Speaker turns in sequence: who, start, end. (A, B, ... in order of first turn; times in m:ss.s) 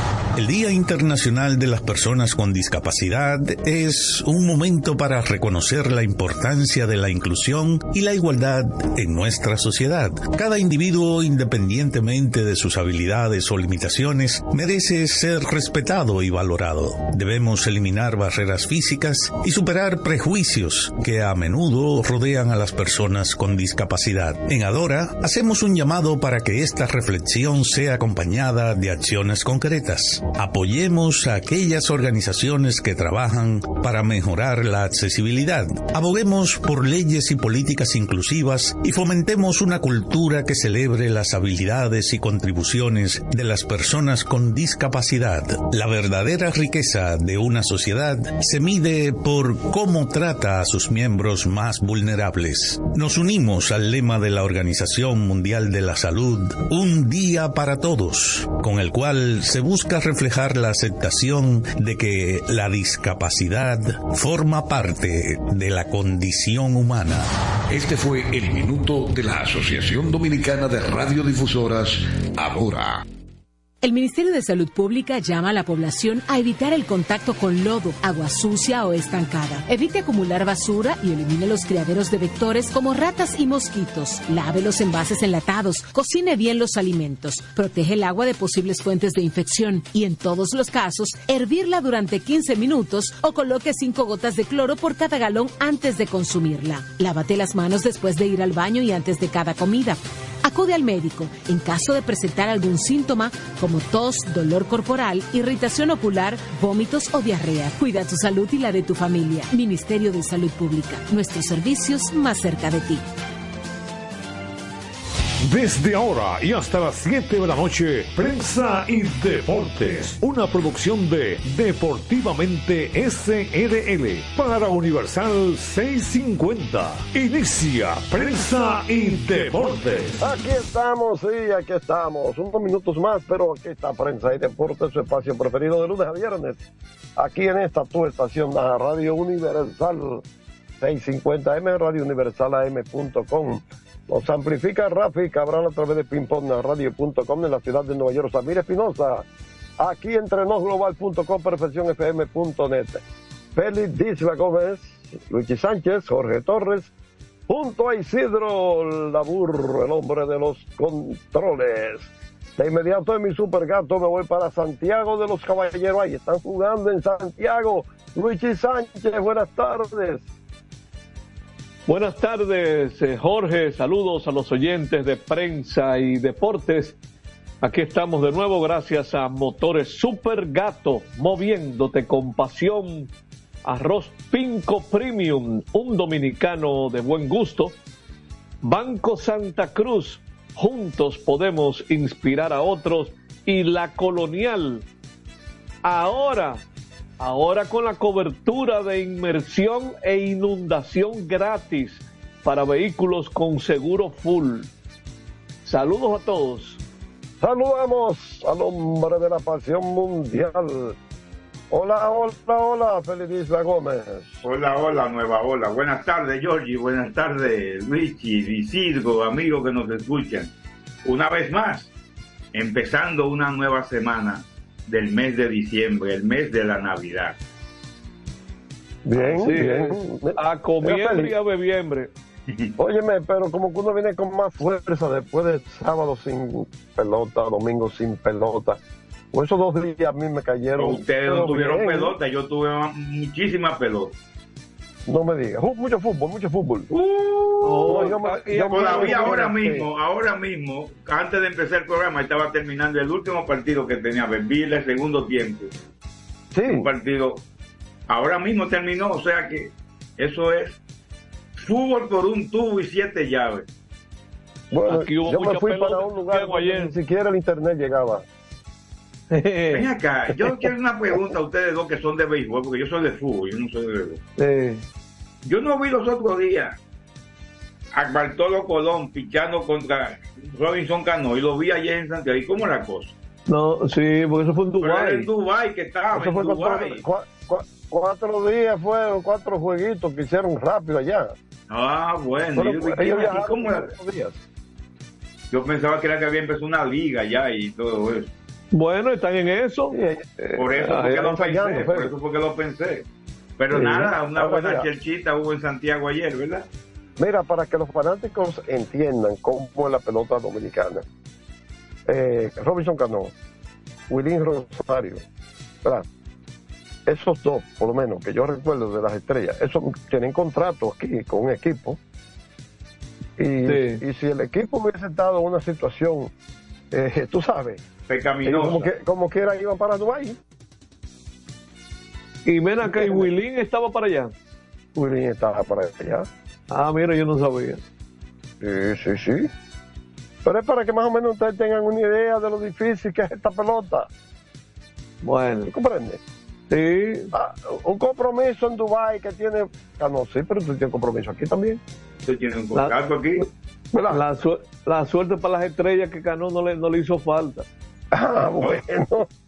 0:00.4-1:07.3 A
1:07.7-1:13.0 B
1:13.8-1:53.0 C
1:55.5-2:10.1 D
2:10.2-2:16.6 E
2:17.2-2:20.2 E
2:20.8-2:29.2 E
2:29.8-2:33.0 E
2:33.5-2:36.9 E
2:37.5-2:50.3 E
2:51.9-2:57.0 F
2:57.6-3:03.1 F
3:03.6-3:07.8 F
3:08.6-3:14.8 F
3:15.8-3:16.6 F
3:17.2-3:24.7 F
3:25.6-3:26.8 F
3:27.4-3:31.0 E
3:31.7-3:34.4 E
3:34.4-3:40.5 G
3:41.0-3:41.9 G
3:42.5-3:47.4 G
3:49.0-3:51.3 E
3:49.2-3:52.1 F
3:52.5-3:52.7 G
3:52.8-3:58.8 E
3:59.3-4:02.1 E
4:00.8-4:04.1 G
4:05.1-4:06.9 E
4:06.9-4:15.7 G
4:07.6-4:09.4 F
4:07.8-4:09.9 E
4:16.5-4:16.9 E
4:16.6-4:17.4 G
4:18.1-4:20.8 G
4:21.6-4:23.6 G
4:24.7-4:28.2 E
4:24.9-4:26.9 F
4:29.3-4:29.8 F
4:29.7-4:34.2 G
4:34.4-4:34.8 F
4:35.4-4:36.8 G
4:37.9-4:43.1 G
4:43.5-4:45.3 F
4:44.8-4:47.0 G
4:46.1-4:51.3 E
4:51.7-4:53.9 G
4:52.6-4:54.4 E
4:55.5-4:58.3 G
4:58.7-5:01.3 F
4:59.9-5:00.3 E
5:00.5-5:03.0 G
5:01.0-5:02.1 E
5:03.6-5:06.6 G
5:03.7-5:04.9 E
5:07.2-5:11.0 E
5:12.1-5:13.3 E
5:14.1-5:15.2 E
5:17.1-5:22.0 E
5:23.4-5:26.3 E
5:23.6-5:24.0 F
5:26.9-5:27.8 E
5:28.1-5:28.9 G
5:28.4-5:30.4 E
5:32.4-5:34.3 F
5:32.8-5:33.2 E
5:34.9-5:36.3 E
5:36.7-5:37.8 F
5:38.6-5:39.5 E
5:40.4-5:44.1 E
5:45.2-5:45.7 F
5:45.6-5:46.2 E
5:46.7-5:47.3 F
5:47.3-5:51.8 E
5:52.2-5:53.4 G
5:53.9-5:54.2 E
5:54.1-5:57.6 F
5:58.1-5:59.3 E